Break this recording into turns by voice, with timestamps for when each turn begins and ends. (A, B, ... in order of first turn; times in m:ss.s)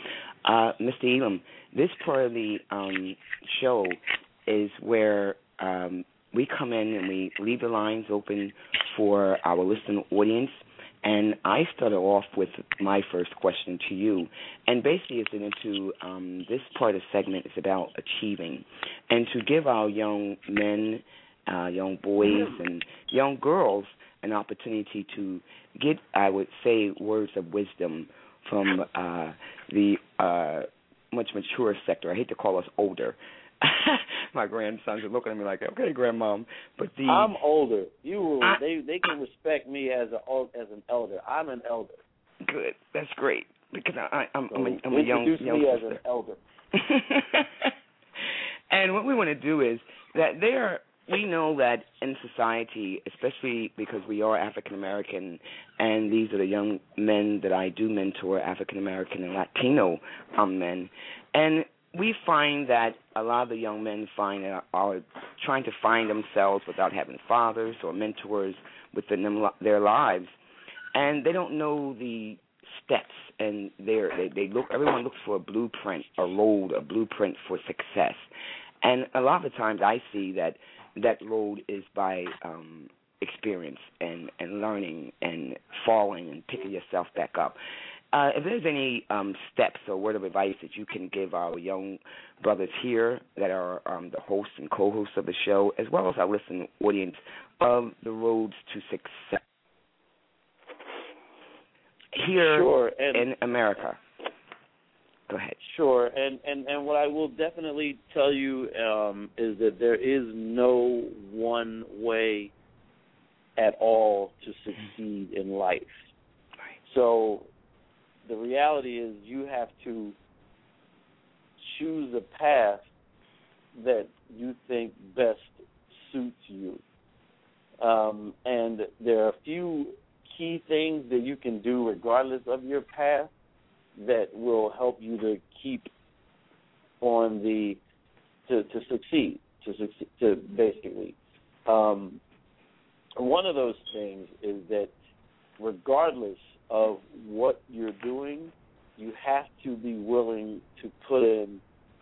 0:00.4-0:37.3 A
0:37.1-0:42.0 B
0:42.4-0:46.0 A
0:44.5-0:46.4 B
0:46.7-0:47.7 A
0:48.7-1:10.3 A
1:10.9-1:18.3 A
1:18.8-1:27.6 A
1:28.1-1:39.4 A
1:42.1-1:44.0 A
1:42.4-1:43.2 B
1:45.3-1:45.6 A
1:45.6-1:52.5 B
1:53.6-1:55.9 B
1:56.8-1:57.5 B
1:58.2-2:00.2 B
2:01.6-2:02.8 B
2:03.7-2:06.8 B
2:07.8-2:13.3 B
2:14.0-2:15.9 B
2:17.0-2:17.8 B
2:18.5-2:22.2 B
2:23.2-2:24.9 B
2:25.6-2:31.6 B